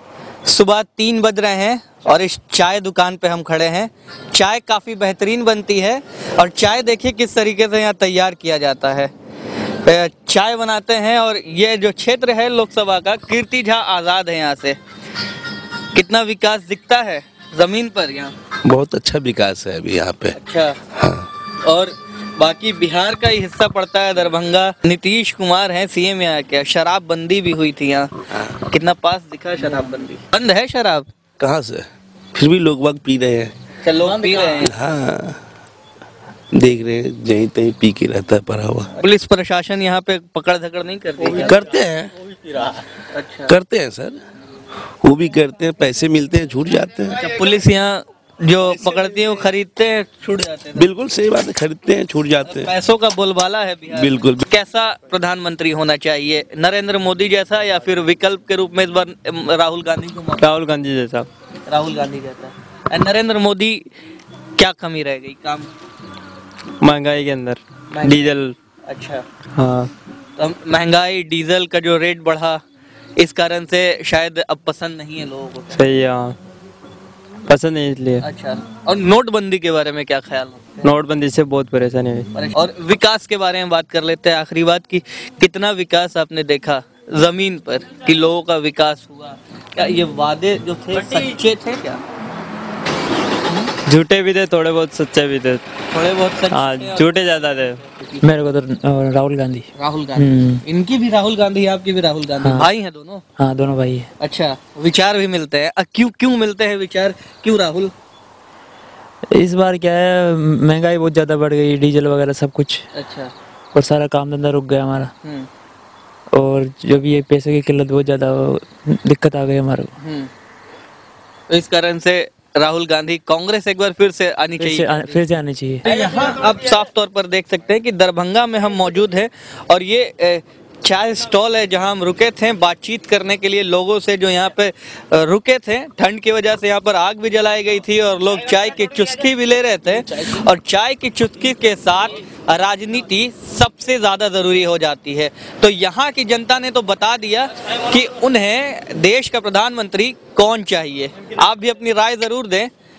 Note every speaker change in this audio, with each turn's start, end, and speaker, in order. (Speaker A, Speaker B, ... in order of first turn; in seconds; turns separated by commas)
Speaker A: 0.5-9.1, Speaker A: 9.8-14.8, Speaker A: 15.9-18.3, Speaker B: 18.6-20.4, Speaker A: 20.3-20.8, Speaker B: 20.9-21.3, Speaker A: 21.6-31.1, Speaker B: 31.4-33.5, Speaker A: 33.8-34.7, Speaker B: 34.6-35.4, Speaker B: 36.5-38.9, Speaker A: 39.0-41.7, Speaker B: 41.3-42.1, Speaker A: 43.1-43.5, Speaker B: 43.5-44.2, Speaker B: 45.0-47.2, Speaker A: 47.2-50.9, Speaker B: 50.8-52.7, Speaker A: 52.4-60.5, Speaker B: 53.9-54.4, Speaker C: 60.4-61.3, Speaker A: 61.7-63.8, Speaker A: 64.6-65.7, Speaker C: 66.8-68.5, Speaker A: 67.9-68.3, Speaker A: 68.9-69.2, Speaker C: 69.5-69.9, Speaker A: 70.4-72.6, Speaker A: 73.2-75.8, Speaker C: 75.7-76.4, Speaker C: 77.5-78.2, Speaker A: 78.2-80.9, Speaker C: 80.8-82.3, Speaker A: 82.3-92.0, Speaker C: 93.8-95.6, Speaker A: 95.9-97.3, Speaker C: 96.5-97.8, Speaker A: 97.9-98.3, Speaker D: 98.2-100.6, Speaker A: 99.8-103.2, Speaker D: 102.4-102.7, Speaker D: 103.4-104.1, Speaker A: 104.2-107.9, Speaker D: 109.3-112.8, Speaker A: 112.9-113.3, Speaker D: 113.7-115.1, Speaker A: 115.2-115.5, Speaker D: 116.3-119.9, Speaker A: 120.0-120.3, Speaker A: 121.5-125.3, Speaker D: 124.6-125.9, Speaker A: 125.8-152.7